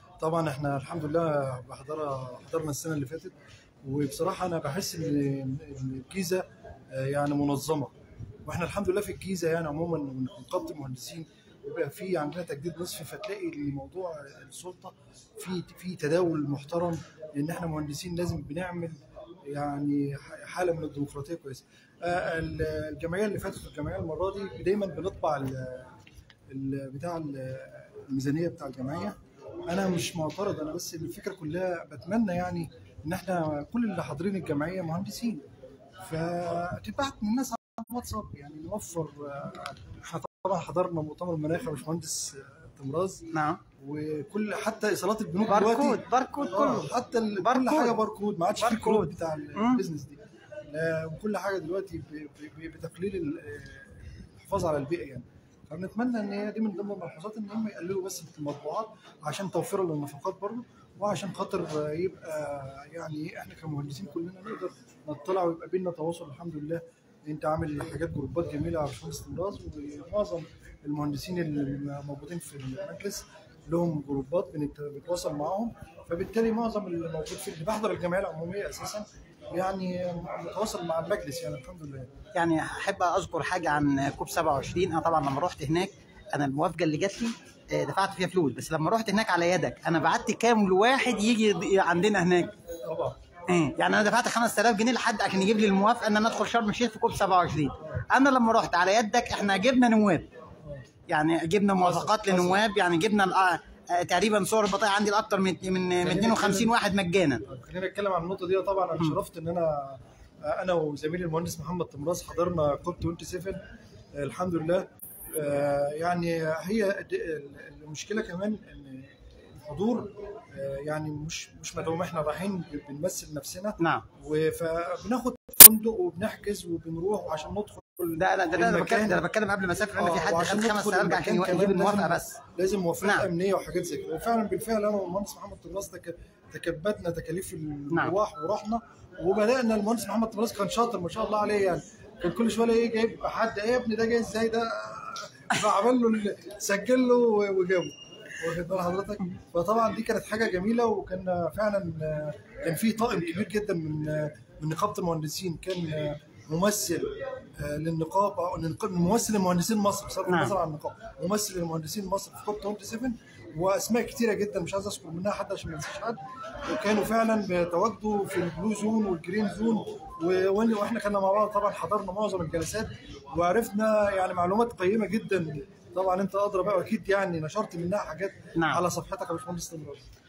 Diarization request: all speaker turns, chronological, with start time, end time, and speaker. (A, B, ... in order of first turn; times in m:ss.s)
0:00.2-0:07.9 A
0:08.5-0:25.9 A
0:26.5-0:29.2 A
0:29.7-0:35.4 A
0:36.0-1:22.1 A
0:43.3-0:43.6 B
0:45.5-0:48.0 B
0:48.6-0:49.8 B
1:22.3-1:32.6 B
1:32.9-1:33.2 A
1:33.5-1:40.3 B
1:41.1-1:47.4 B
1:41.8-1:42.6 A
1:46.0-1:46.7 A
1:47.4-1:53.6 A
1:54.1-2:09.2 A
2:03.8-2:04.1 B
2:08.2-2:12.4 B
2:10.0-3:00.1 A
2:40.3-2:40.5 B
2:58.6-2:58.8 B